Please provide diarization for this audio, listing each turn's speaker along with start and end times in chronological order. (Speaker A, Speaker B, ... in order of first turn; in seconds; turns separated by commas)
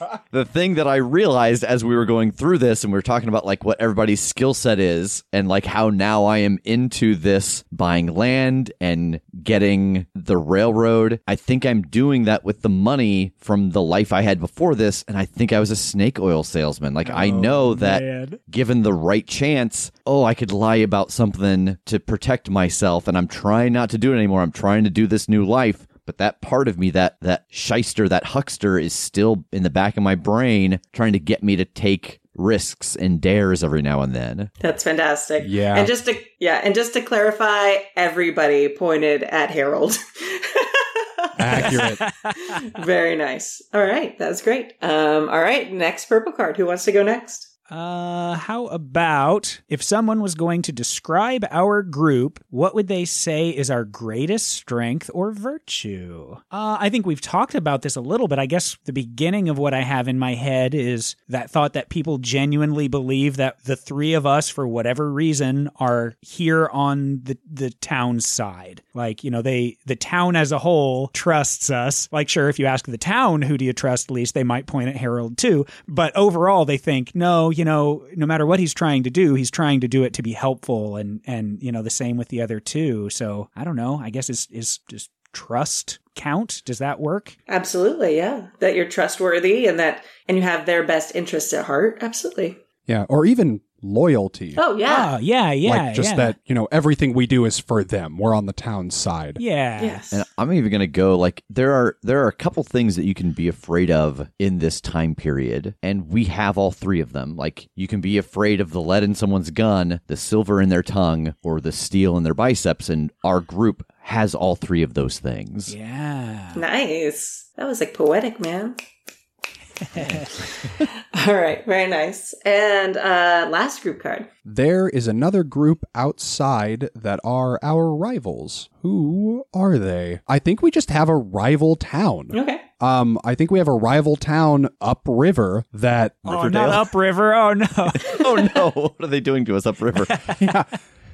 Speaker A: 0.3-34.5, Speaker B: 17.0-18.4, Speaker C: 34.6-41.8, Speaker D: 35.4-35.9, Speaker D: 41.4-42.0, Speaker B: 41.5-42.4, Speaker C: 42.4-47.5, Speaker B: 47.7-87.4, Speaker C: 87.5-92.6, Speaker D: 92.9-94.6, Speaker C: 94.5-95.2, Speaker B: 94.8-96.3, Speaker D: 95.7-99.4, Speaker B: 99.4-100.0, Speaker C: 99.8-100.2, Speaker A: 100.1-115.7, Speaker B: 115.7-116.6, Speaker C: 116.5-118.8, Speaker B: 119.9-120.3, Speaker C: 120.7-124.3, Speaker D: 124.5-136.5, Speaker C: 132.3-132.6, Speaker B: 136.3-138.3, Speaker A: 136.3-136.9, Speaker A: 137.9-140.2, Speaker D: 140.4-140.7